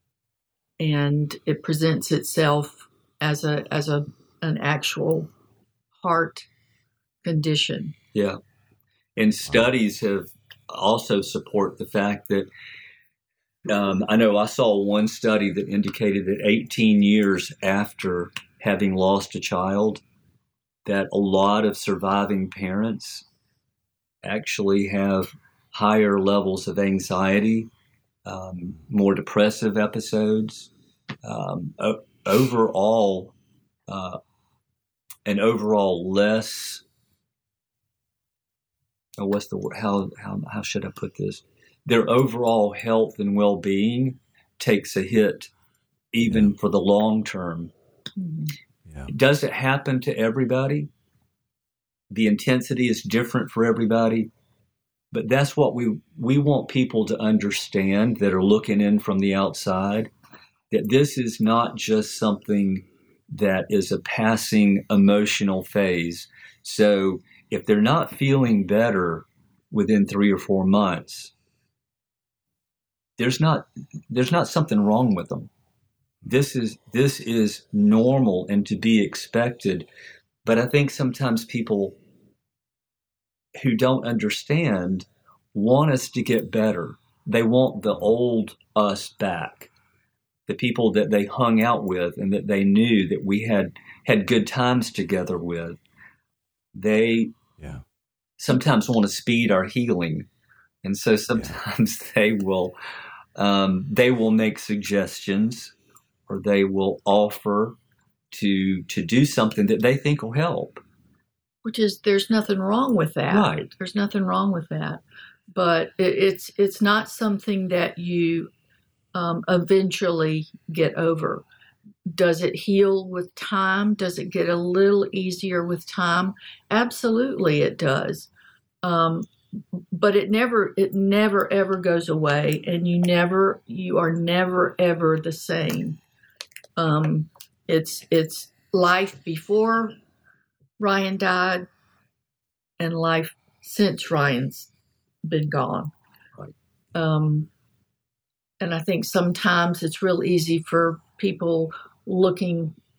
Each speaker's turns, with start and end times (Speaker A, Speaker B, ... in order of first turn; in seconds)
Speaker A: 0.8-5.3, 5.9-6.5, 7.2-7.9, 48.2-48.5, 111.6-115.0, 115.5-118.5, 119.1-121.4, 122.1-128.3, 128.8-129.3, 129.9-136.0, 136.8-140.0, 140.8-141.7, 142.8-144.7, 145.2-145.9, 146.9-147.5, 148.6-152.8
Speaker B: 9.2-12.5, 13.7-20.0, 20.8-23.2, 24.2-27.7, 28.2-30.7, 31.2-33.3, 33.9-34.2, 35.2-36.8, 39.2-45.5, 46.1-47.7, 49.1-50.9, 52.1-54.3, 55.1-60.1, 60.7-71.3, 73.2-75.5, 76.2-79.9, 80.4-82.0, 83.5-89.7, 90.5-95.8, 96.7-97.3, 98.4-100.3, 100.8-102.8, 103.3-105.7, 106.3-107.8, 108.3-110.8, 113.2-113.7